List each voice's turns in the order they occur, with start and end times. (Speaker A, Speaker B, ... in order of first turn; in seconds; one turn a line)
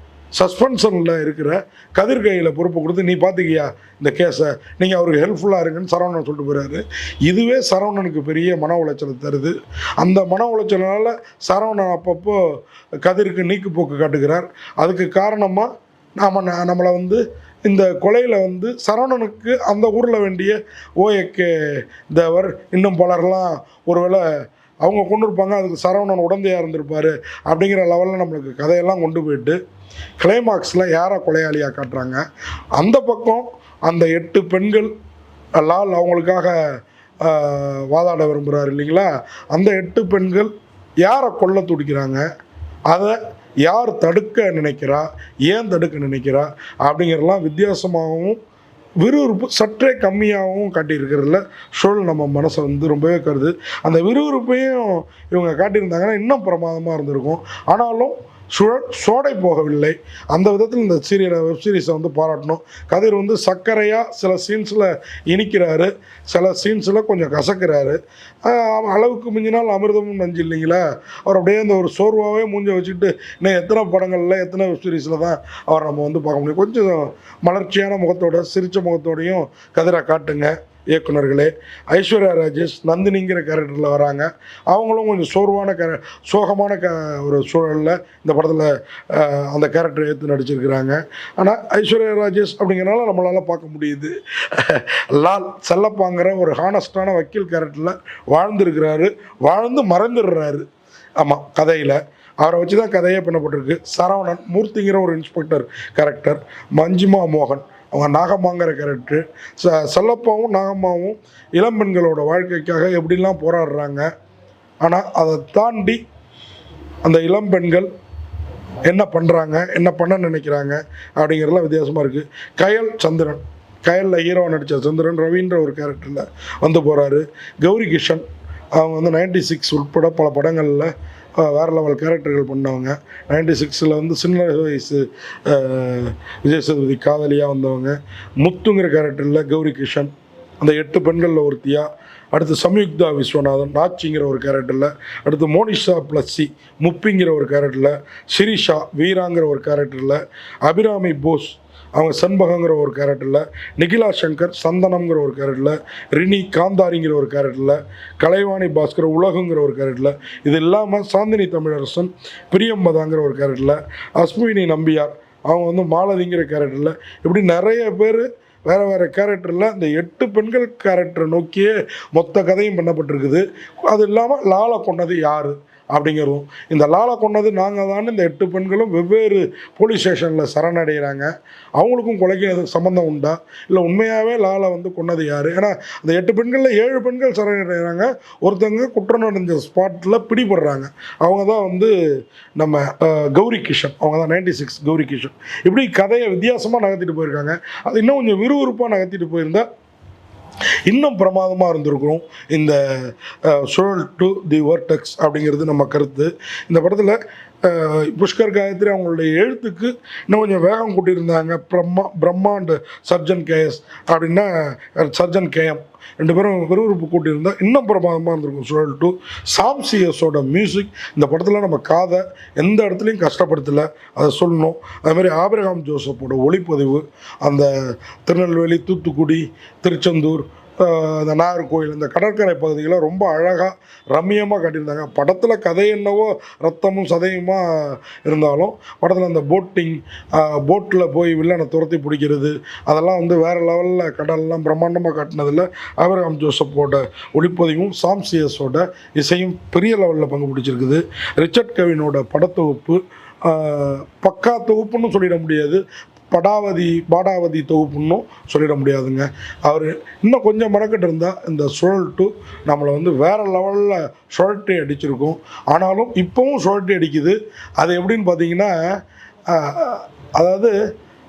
Speaker A: 0.4-29.6
Speaker A: 30.2-32.2
Speaker A: 32.8-34.9
Speaker A: 35.6-36.6
Speaker A: 37.2-40.5
Speaker A: 41.0-42.2
Speaker A: 42.9-48.4
Speaker A: 49.0-100.7
Speaker A: 101.2-114.1
Speaker A: 114.8-116.0
Speaker A: 117.0-117.9
Speaker A: 118.8-128.2
Speaker A: 128.8-191.9
Speaker A: 192.6-199.7
Speaker A: 200.9-269.0
Speaker A: 269.5-270.8